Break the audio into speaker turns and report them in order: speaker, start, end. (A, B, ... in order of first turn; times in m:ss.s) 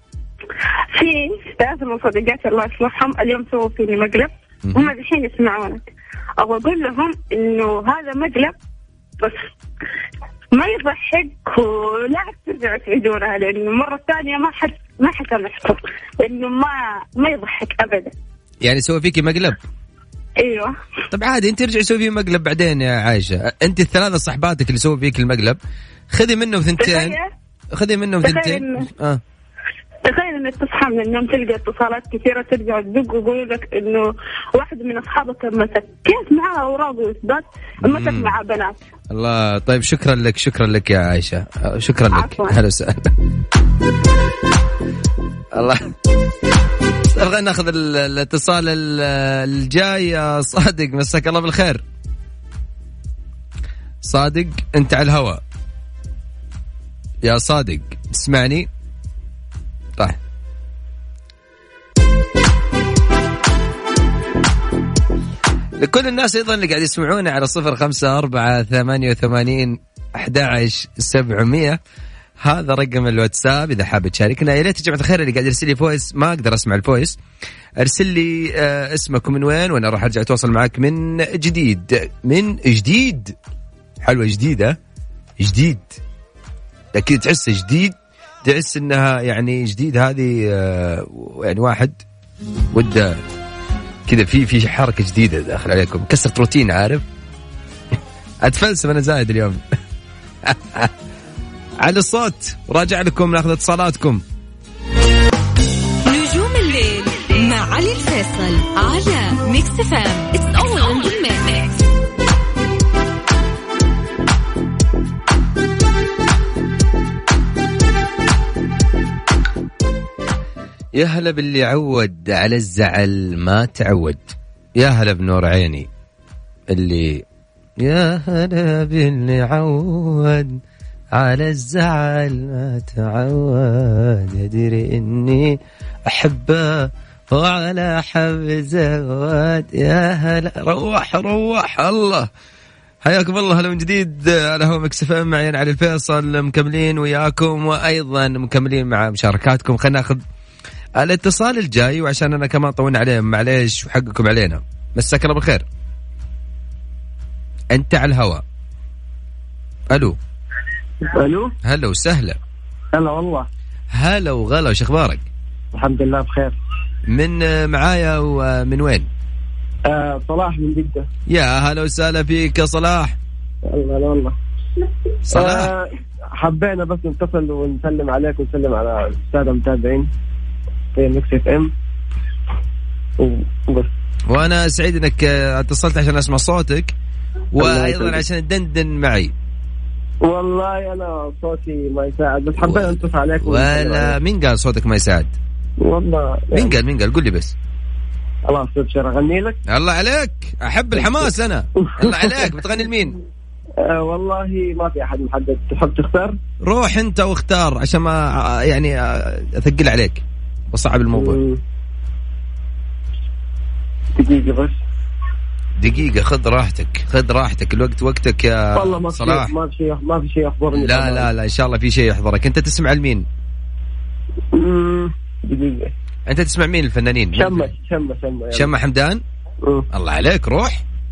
0:00.9-0:08.6 A
0:04.7-0:04.9 B
0:09.2-0:09.4 A
0:10.5-0:18.1 A
0:18.6-0:19.6 B
0:20.4-0:20.7 A
0:21.1-0:25.6 B
0:26.1-0:27.2 B
0:26.8-0:27.3 A
0:27.8-0:29.2 B
0:28.2-0:28.7 A
0:30.1-0:38.8 A
0:37.8-0:38.4 B
0:39.1-0:43.1 B
0:42.1-0:42.6 A
0:45.5-0:45.9 B
0:47.1-0:51.8 B
0:54.0-0:55.4 B
0:57.2-0:58.7 B
1:05.8-1:11.8 B
1:12.4-1:17.2 B
1:17.8-1:23.4 B
1:24.0-1:24.8 B
1:25.4-1:26.0 B
1:27.0-1:32.0 B
1:32.7-1:33.2 B
1:34.1-1:37.0 B
1:38.4-1:39.6 B
1:40.4-1:40.9 B
1:41.8-1:44.2 B
1:46.1-1:51.8 C
2:01.0-2:05.9 B
2:06.7-2:07.2 B
2:07.8-2:10.6 B
2:11.2-2:22.3 B
2:23.0-2:30.2 B
2:31.0-2:35.6 B
2:37.7-2:38.4 B
2:39.9-2:40.2 B
2:41.1-2:41.5 D
2:41.6-2:42.4 B
2:42.9-2:43.5 D
2:44.0-2:45.3 B
2:45.7-2:46.6 D
2:47.1-2:49.1 B
2:49.9-2:51.1 D
2:51.3-2:53.2 B
2:53.7-2:54.4 D
2:55.3-2:55.7 B
2:55.3-3:00.1 D
3:01.0-3:01.7 D
3:03.2-3:03.9 D
3:04.3-3:06.9 B
3:07.6-3:09.3 B
3:07.6-3:08.2 D
3:10.2-3:14.2 D
3:12.6-3:15.3 B
3:15.8-3:16.8 D
3:16.5-3:17.5 B
3:18.5-3:19.6 D
3:19.7-3:23.2 B
3:22.0-3:22.5 D
3:23.8-3:26.4 D
3:26.7-3:31.4 B
3:31.2-3:31.6 D
3:34.2-3:34.8 D
3:35.8-3:39.5 B
3:38.8-3:41.3 D
3:40.7-3:43.2 B
3:44.5-3:45.9 D
3:46.3-3:47.7 B
3:47.4-3:48.7 D
3:48.5-3:49.2 B
3:49.9-3:50.8 B